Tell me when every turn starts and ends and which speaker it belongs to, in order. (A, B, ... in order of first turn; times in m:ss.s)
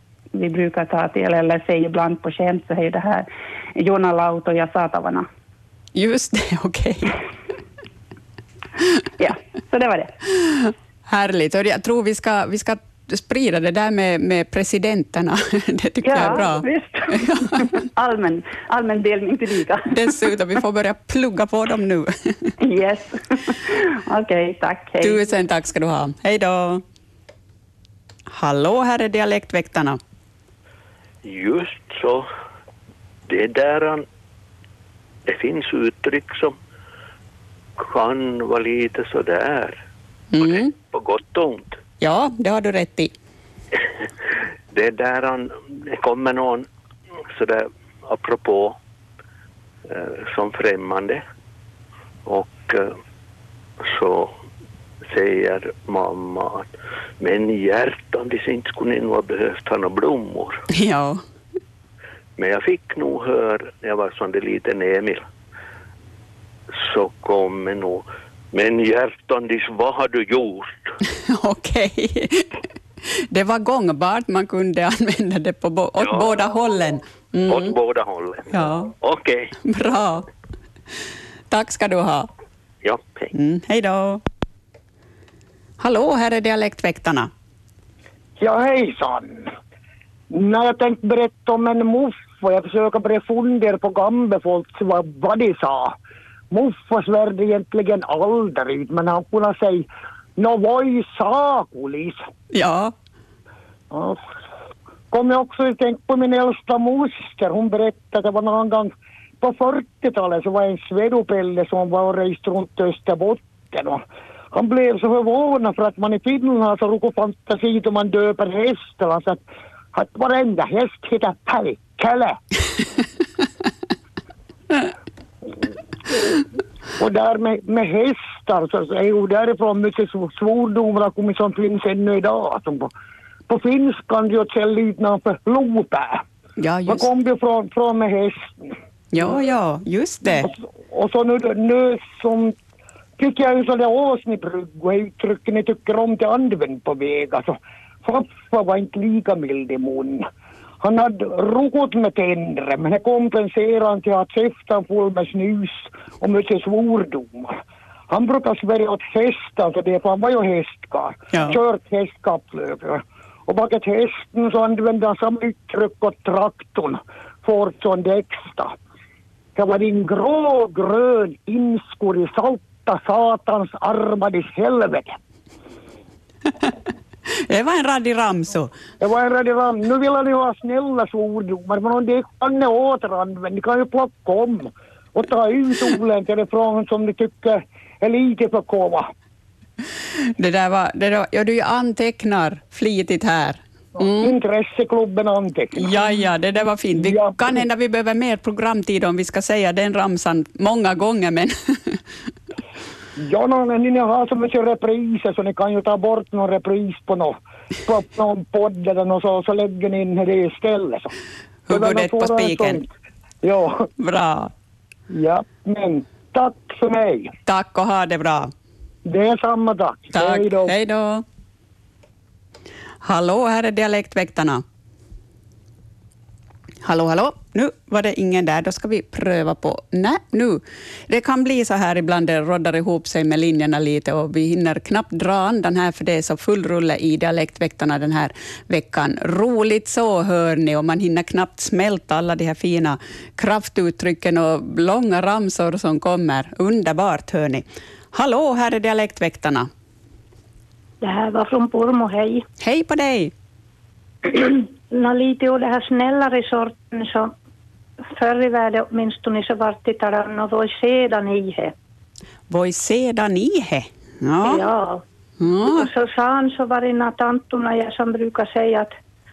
0:00.3-0:05.3 A
0:06.0-0:07.1 B
0:09.2-0:10.1 A
0:10.5-0:17.7 B
0:16.0-0:17.0 A
0:17.6-0:20.1 A
0:19.9-0:22.5 B
0:22.6-0:25.2 A
0:25.0-0:26.8 B
0:28.3-0:30.0 B
0:31.2-0:32.3 C
0:33.3-0:34.0 C
0:35.3-0:36.6 C
0:37.8-0:39.8 C
0:40.3-0:40.7 B
0:40.4-0:41.8 C
0:42.0-0:43.1 B
0:44.7-0:46.7 C
0:47.3-0:48.8 C
0:49.9-0:51.2 C
0:52.3-0:53.0 C
0:53.8-0:54.3 C
0:55.1-0:56.7 C
0:57.2-1:00.6 C
1:00.7-1:01.2 B
1:02.4-1:05.2 C
1:06.8-1:10.9 C
1:11.3-1:12.5 B
1:13.3-1:17.7 B
1:17.5-1:19.5 C
1:18.5-1:18.9 B
1:19.6-1:20.2 B
1:21.5-1:22.3 B
1:22.8-1:23.3 C
1:23.3-1:24.2 B
1:25.8-1:27.3 B
1:28.4-1:29.5 D
1:30.3-1:35.9 D
1:36.5-1:42.2 D
1:42.5-1:42.9 B
1:43.9-1:44.2 D
1:45.1-1:59.4 D
1:59.9-2:02.4 D
2:07.0-2:12.9 D
2:13.5-2:16.2 D
2:16.6-2:17.1 B
2:16.9-2:18.8 D
2:19.1-2:20.5 B
2:20.4-2:22.6 D
2:23.2-2:30.3 D
2:30.8-2:37.6 D
2:38.1-2:48.8 D
2:49.6-2:55.2 D
2:57.5-2:58.7 B
2:59.0-3:09.1 D
3:10.4-3:14.3 B
3:14.0-3:16.0 D
3:15.8-3:22.0 B
3:17.0-3:17.6 D
3:23.2-3:31.1 D
3:31.7-3:32.8 B
3:31.7-3:32.9 D
3:33.4-3:33.9 D
3:34.0-3:34.5 B
3:35.1-3:37.3 D
3:37.5-3:38.5 B
3:39.1-3:40.7 D
3:40.1-3:41.2 B
3:43.0-3:44.6 B
3:46.8-4:09.7 B
4:11.0-4:12.4 E
4:12.6-4:13.3 B
4:14.3-4:17.3 E
4:18.1-4:21.7 E
4:22.5-4:24.7 B
4:24.4-4:25.0 E
4:25.4-4:25.9 B
4:25.7-4:28.9 E